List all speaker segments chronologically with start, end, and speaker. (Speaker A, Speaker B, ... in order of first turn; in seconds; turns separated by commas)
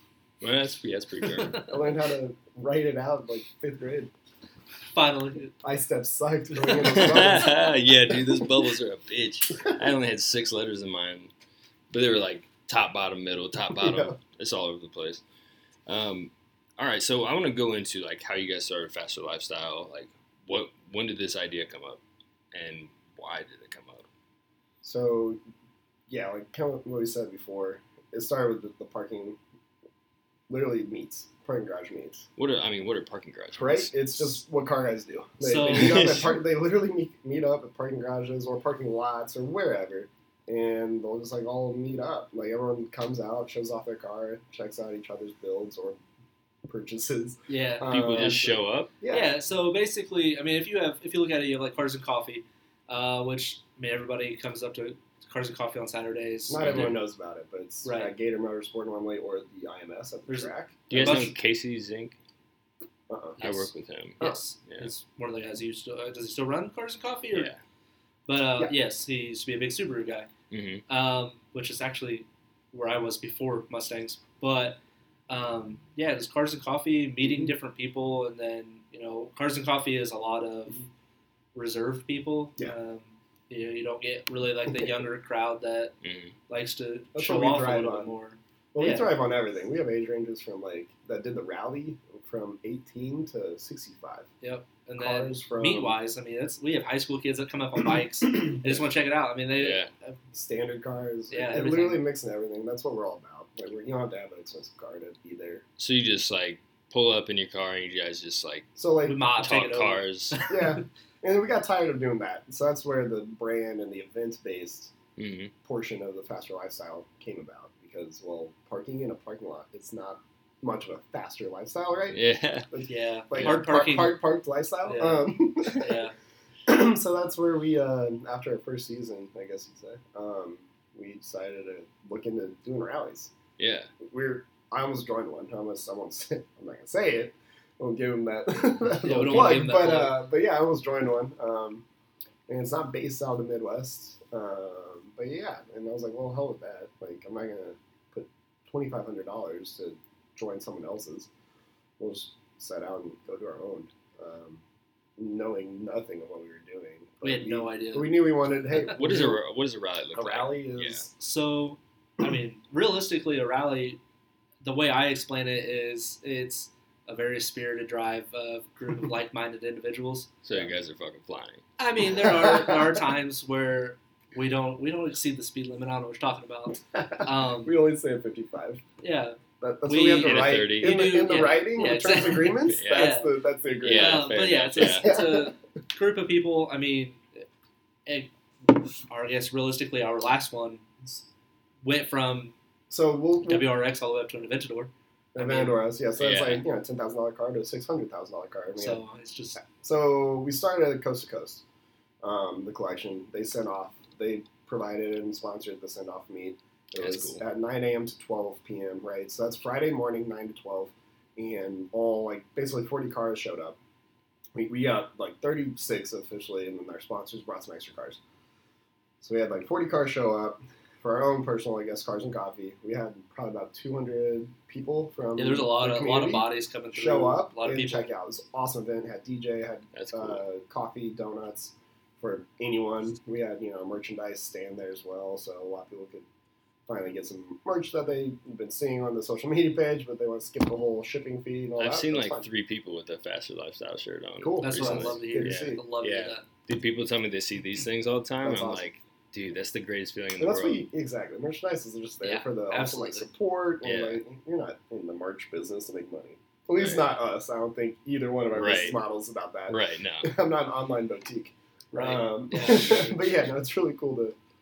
Speaker A: 0.4-1.8, Speaker B: 1.6-4.1, Speaker C: 4.9-5.5, Speaker B: 5.6-8.4, Speaker A: 6.7-11.3, Speaker A: 11.9-15.2, Speaker B: 13.7-14.2, Speaker A: 15.9-22.0, Speaker A: 22.5-24.1, Speaker B: 24.8-25.4, Speaker B: 26.1-29.4, Speaker B: 30.5-32.3, Speaker A: 32.4-34.3, Speaker B: 33.5-46.0, Speaker C: 35.4-36.1, Speaker A: 35.6-36.4, Speaker B: 46.7-49.3, Speaker C: 47.5-47.9, Speaker A: 47.9-48.9, Speaker C: 49.1-56.9, Speaker B: 56.5-61.2, Speaker A: 56.6-57.0, Speaker C: 57.8-58.1, Speaker C: 60.3-61.3, Speaker A: 60.9-62.2, Speaker B: 63.1-63.4, Speaker C: 63.4-67.5, Speaker A: 63.4-64.9, Speaker A: 67.3-67.6, Speaker C: 68.3-70.3, Speaker A: 70.5-70.8, Speaker C: 70.9-80.8, Speaker B: 77.2-77.5, Speaker C: 81.5-86.0, Speaker B: 84.7-85.0, Speaker A: 86.0-86.3, Speaker C: 86.5-89.1, Speaker B: 87.1-88.1, Speaker B: 88.7-94.3, Speaker C: 94.4-100.2, Speaker B: 95.0-96.0, Speaker A: 99.6-99.9, Speaker B: 100.3-105.6, Speaker C: 101.3-102.0, Speaker A: 105.8-108.7, Speaker B: 108.8-109.2, Speaker C: 109.0-110.8, Speaker A: 109.4-110.4, Speaker B: 110.5-114.9, Speaker A: 115.2-115.5, Speaker B: 115.7-122.2, Speaker A: 122.1-122.7, Speaker B: 122.7-126.0, Speaker C: 122.9-124.2, Speaker A: 123.3-123.6, Speaker C: 124.8-126.1, Speaker B: 126.7-133.3, Speaker A: 133.6-133.9, Speaker B: 134.0-141.8, Speaker C: 139.0-140.2, Speaker B: 142.5-151.3, Speaker B: 152.0-154.6, Speaker B: 155.2-159.4, Speaker C: 157.2-158.9, Speaker A: 158.9-161.1, Speaker B: 160.1-161.1, Speaker C: 161.2-164.0, Speaker C: 164.6-170.3, Speaker A: 170.4-171.6, Speaker C: 171.8-177.8, Speaker B: 172.0-173.1, Speaker B: 176.9-178.8, Speaker C: 179.0-183.3, Speaker B: 179.6-185.5, Speaker A: 180.2-181.1, Speaker A: 182.7-183.2, Speaker A: 183.8-185.1, Speaker C: 183.9-187.5, Speaker C: 188.1-191.2, Speaker C: 191.8-192.6, Speaker B: 192.9-193.7, Speaker C: 193.4-195.8, Speaker B: 195.3-199.0, Speaker A: 196.2-196.6, Speaker C: 198.8-199.6, Speaker B: 199.6-201.6, Speaker B: 202.2-213.8, Speaker A: 207.0-207.4, Speaker B: 214.6-218.2, Speaker B: 219.2-236.3, Speaker C: 225.4-228.1, Speaker A: 229.9-230.4, Speaker B: 236.9-242.5, Speaker A: 241.8-250.9, Speaker B: 244.4-245.8, Speaker C: 244.6-246.5, Speaker B: 248.4-248.8, Speaker B: 250.4-264.4, Speaker C: 252.2-253.3, Speaker A: 253.8-254.2, Speaker A: 256.8-257.1, Speaker A: 258.5-259.0, Speaker A: 259.7-260.3, Speaker C: 261.9-263.2